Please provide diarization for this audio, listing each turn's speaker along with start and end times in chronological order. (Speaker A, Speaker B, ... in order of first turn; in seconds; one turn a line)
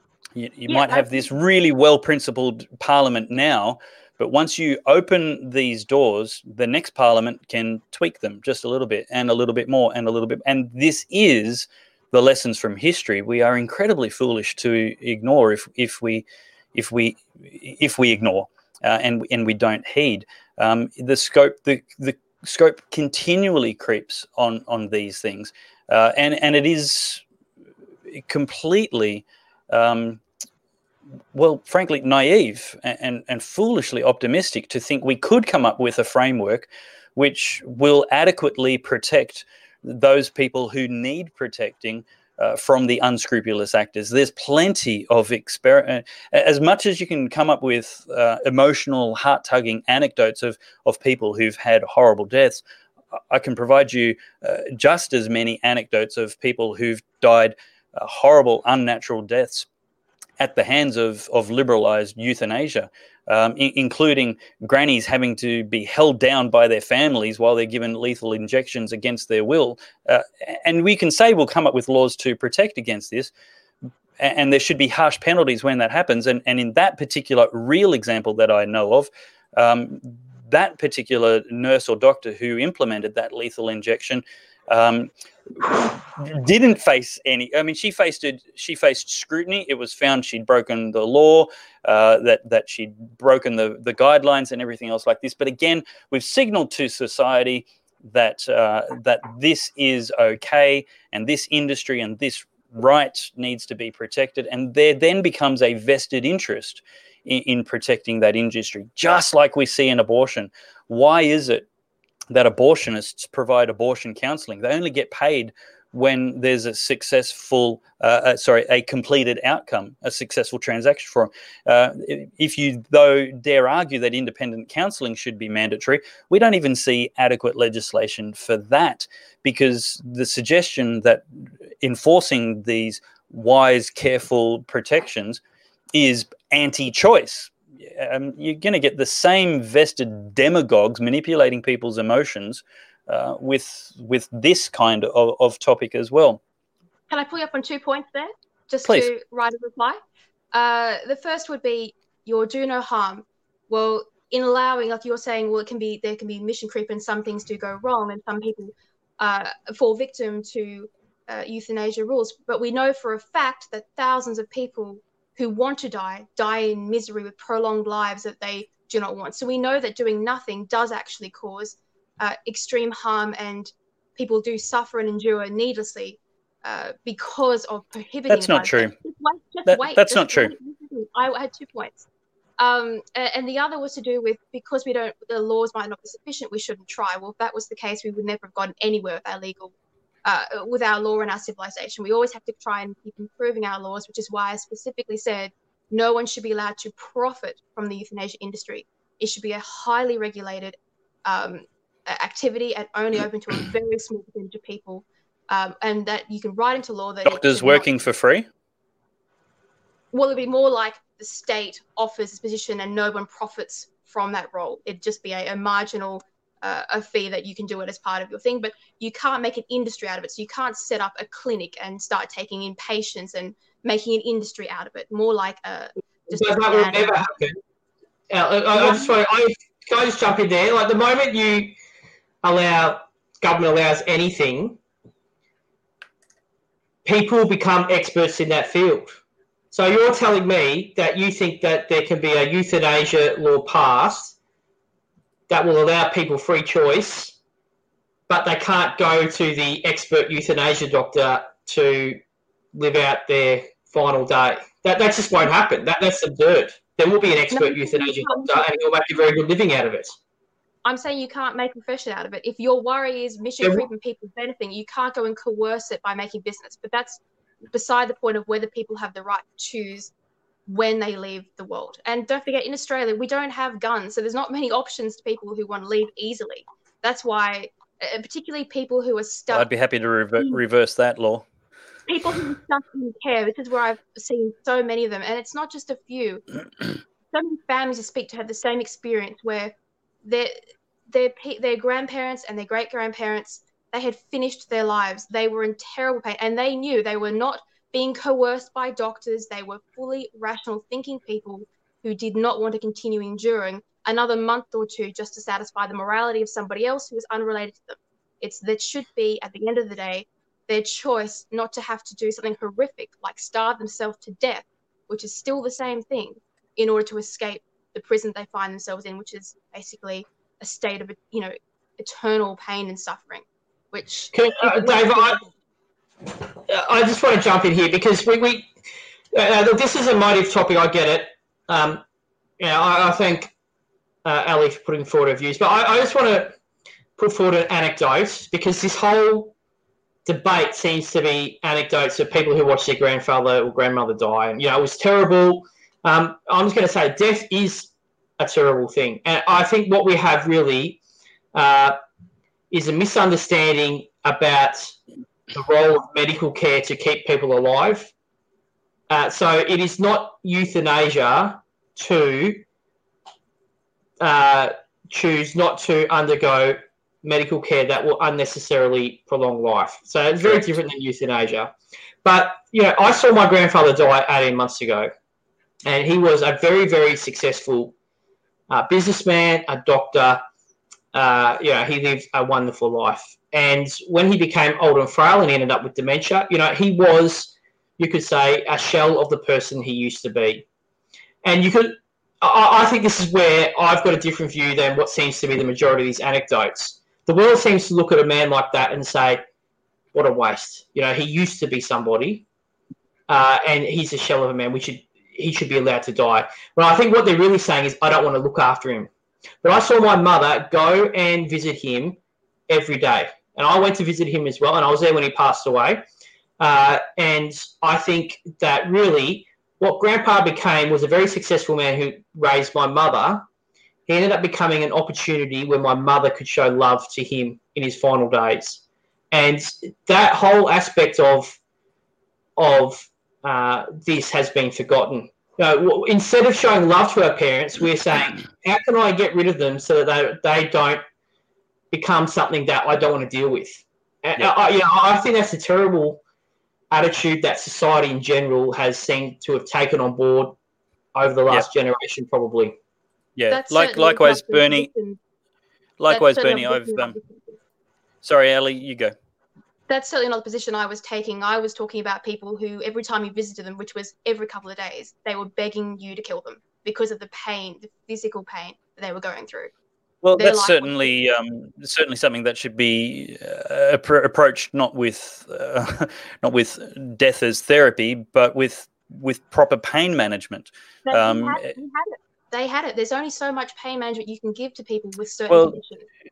Speaker A: 0.3-27.2
Speaker B: 0.7-1.2
Speaker A: 28.1-30.2
Speaker A: 31.3-52.6
Speaker A: 53.3-59.7
Speaker A: 60.4-73.3
Speaker A: 74.2-111.7
Speaker A: 112.3-131.2
Speaker A: 131.8-135.4
Speaker A: 135.9-146.4
Speaker B: 147.1-150.0
Speaker B: 150.5-182.1
Speaker A: 178.3-178.9
Speaker A: 179.7-180.5
Speaker B: 182.6-189.7
Speaker B: 190.2-207.9
Speaker A: 207.2-208.5
Speaker B: 210.1-227.1
Speaker C: 226.3-227.6
Speaker C: 228.3-231.7
Speaker B: 228.7-229.1
Speaker C: 232.4-234.8
Speaker C: 237.0-239.2
Speaker C: 239.7-244.3
Speaker C: 245.5-247.3
Speaker C: 248.3-252.2
Speaker C: 252.7-260.2
Speaker B: 257.5-258.7
Speaker B: 260.8-267.2
Speaker C: 263.6-263.9
Speaker B: 267.7-270.1
Speaker B: 270.7-279.7
Speaker A: 279.5-281.4
Speaker B: 282.1-286.4
Speaker B: 287.3-290.5
Speaker B: 291.1-325.5
Speaker C: 324.3-325.4
Speaker C: 326.7-328.7
Speaker C: 329.3-332.0
Speaker C: 332.6-333.5
Speaker C: 334.2-336.6
Speaker C: 337.2-339.5
Speaker C: 340.2-351.0
Speaker C: 351.5-352.0
Speaker C: 352.7-355.0
Speaker C: 355.5-358.1
Speaker C: 359.1-362.6
Speaker C: 364.2-375.1
Speaker C: 375.9-377.9
Speaker C: 378.7-380.4
Speaker C: 381.1-390.6
Speaker C: 391.4-399.4
Speaker C: 400.1-402.4
Speaker C: 403.3-409.1
Speaker C: 409.6-412.2
Speaker C: 412.7-416.0
Speaker C: 416.6-423.4
Speaker C: 424.1-431.6
Speaker C: 432.6-441.0
Speaker C: 441.9-446.2
Speaker C: 446.9-450.6
Speaker C: 451.1-452.8
Speaker A: 453.4-454.9
Speaker B: 453.5-455.2
Speaker A: 456.0-457.2
Speaker B: 456.1-457.6
Speaker A: 458.2-459.1
Speaker B: 459.9-469.7
Speaker A: 470.2-481.7
Speaker B: 470.4-471.1
Speaker B: 481.1-486.1
Speaker A: 485.5-485.8